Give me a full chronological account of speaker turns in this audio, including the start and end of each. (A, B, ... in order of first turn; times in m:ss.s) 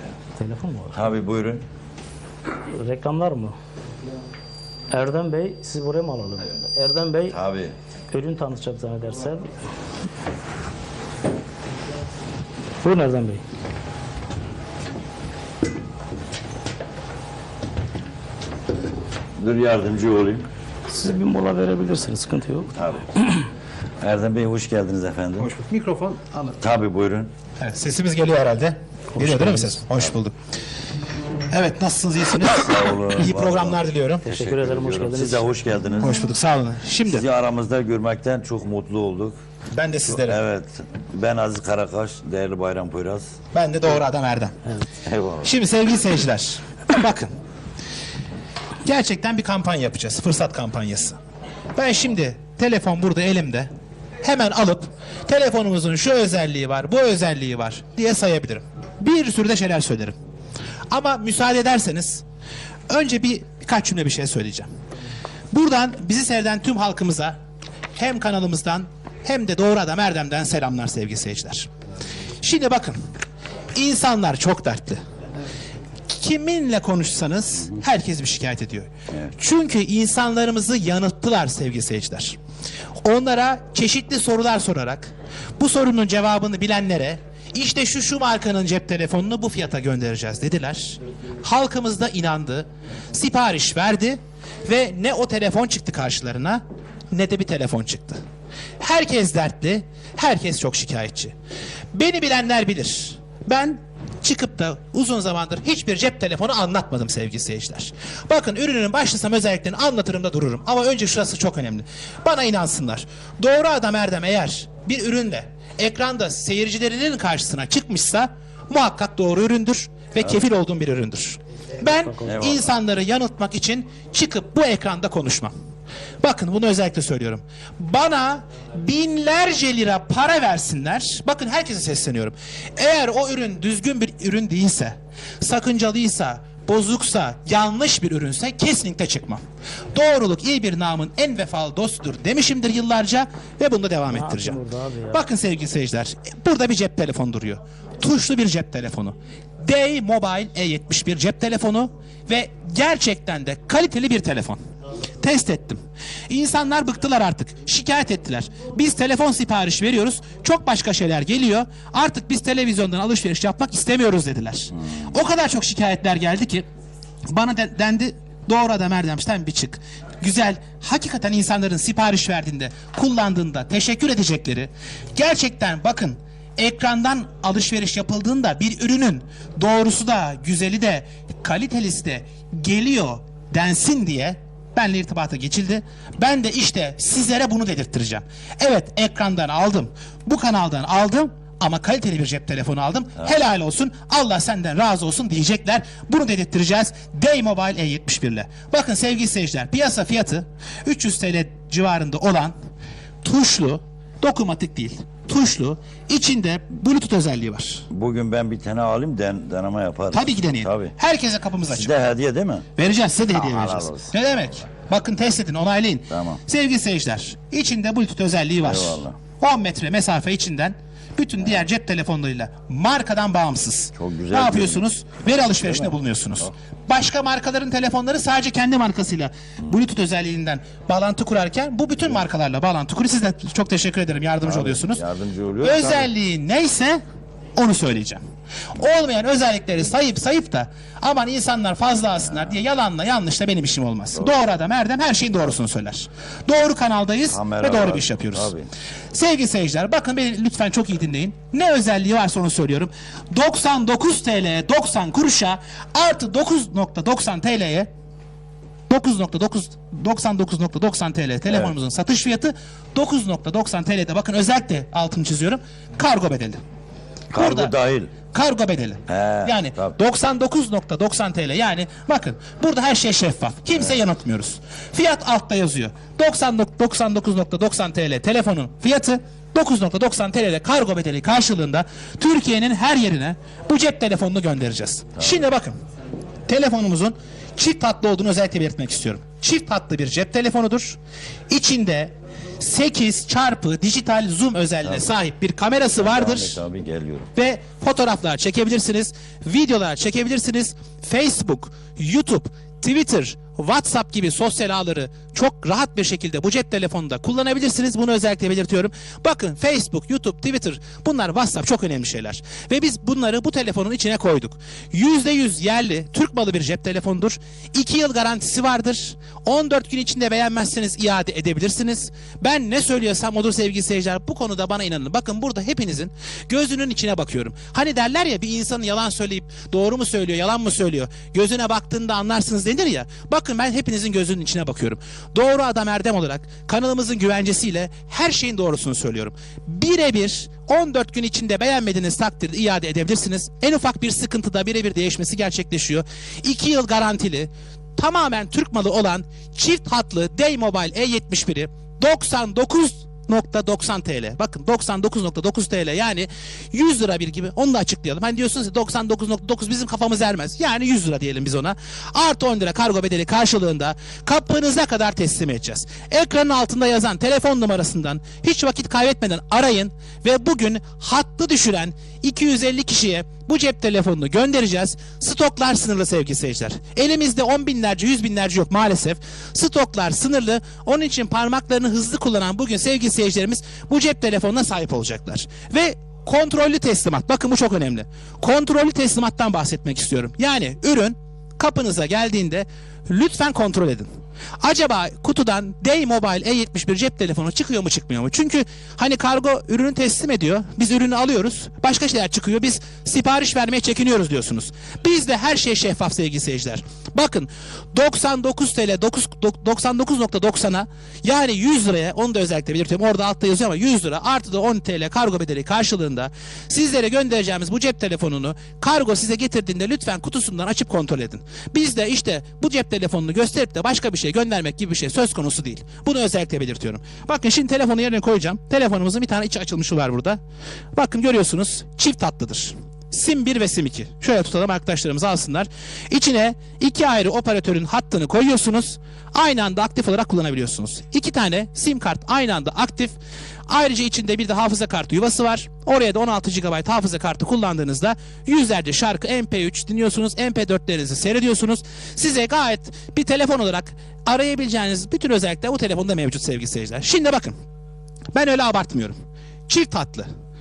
0:00.4-0:01.0 A
0:00.9-0:01.6 B
0:02.7-0:03.5 A
0:04.9-0:07.4 A
0:07.3-0:07.8 B
0:08.1-0:09.5 A
0:12.8-0:13.4 A
0:19.4-0:20.5 B
0:20.9-0:23.4 A
0:22.8-0:23.1 B
0:24.0-0:25.5 B
0:25.4-0:26.6 C
0:26.6-0:27.3 B
0:27.6-0:30.4 C
0:29.2-0:29.8 A
0:31.5-0:34.2 C
0:32.5-0:36.3 B
0:34.2-0:35.5 A
0:36.0-0:37.2 C
0:37.1-0:39.4 B
0:39.7-0:40.4 C
0:40.0-0:43.4 B
0:43.5-0:44.6 C
0:45.0-0:45.5 B
0:45.4-0:47.3 C
0:48.8-0:51.2 C
0:51.8-0:53.7 C
0:54.2-1:00.2 C
1:00.9-1:02.2 C
1:02.9-1:04.7 C
1:05.5-1:07.4 C
1:08.0-1:11.7 C
1:12.4-1:13.0 C
1:13.8-1:15.0 C
1:16.1-1:22.4 C
1:23.0-1:38.2 C
1:38.8-1:41.3 C
1:41.9-2:05.5 C
2:02.2-2:02.7 B
2:06.2-2:19.4 C
2:19.9-2:24.6 C
2:24.1-2:25.2 A
2:25.1-2:34.6 C
2:35.2-2:46.7 C
2:47.3-3:22.6 C
3:23.2-3:27.9 C
3:27.9-3:30.9 B
3:30.1-3:32.0 C
3:31.7-3:32.7 B
3:32.8-3:55.0 C
3:33.3-3:34.1 B
3:36.1-3:36.4 B
3:38.6-3:39.2 B
3:44.0-3:44.8 B
3:45.6-3:45.9 B
3:54.4-3:56.1 B
3:55.6-3:57.0 C
3:57.6-3:58.2 C
3:58.8-4:08.5 C
4:07.3-4:08.7 B
4:09.1-4:17.9 C
4:18.9-4:26.6 C
4:27.3-4:28.1 B
4:27.4-4:27.7 C
4:28.3-4:45.8 C
4:29.1-4:29.9 B
4:46.5-4:51.0 C
4:51.5-4:56.6 C
4:56.0-4:57.3 B
4:57.4-6:34.1 C
6:34.6-7:10.4 C
7:11.0-7:23.2 C
7:23.7-7:37.5 C
7:38.4-7:40.3 C